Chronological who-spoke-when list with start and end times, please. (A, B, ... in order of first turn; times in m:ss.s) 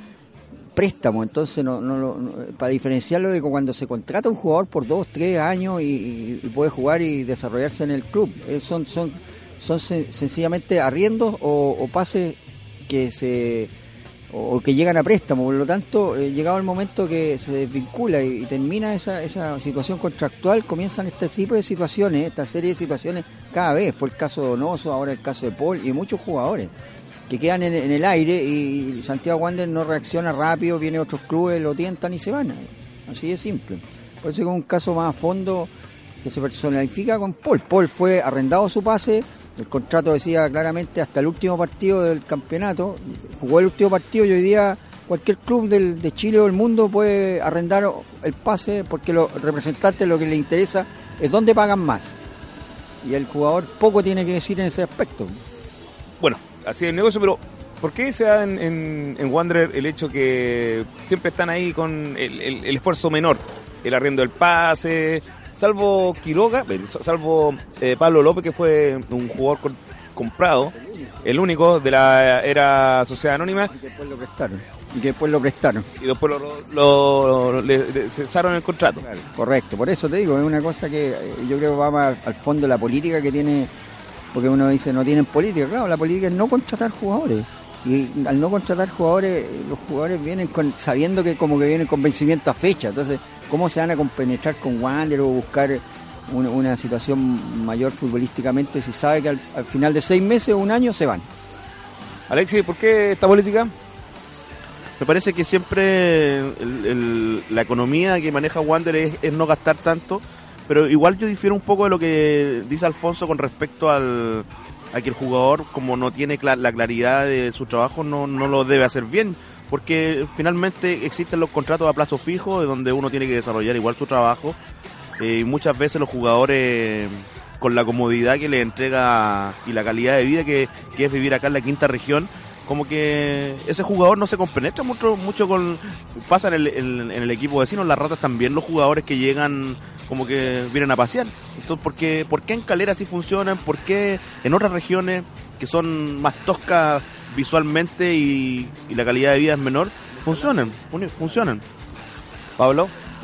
0:00.8-0:13.7 A
0:14.3-0:26.7 A
0:27.3-0:35.7 A
0:36.2-0:52.2 A
0:53.0-0:55.4 A
0:56.2-1:13.7 B
1:10.8-1:11.1 A
1:13.7-1:15.9 A
1:16.0-1:19.0 B
1:19.0-1:23.7 A
1:24.3-1:41.3 A
1:42.3-1:43.7 B
1:45.0-2:04.6 C
2:05.2-2:31.6 C
2:32.6-2:32.9 B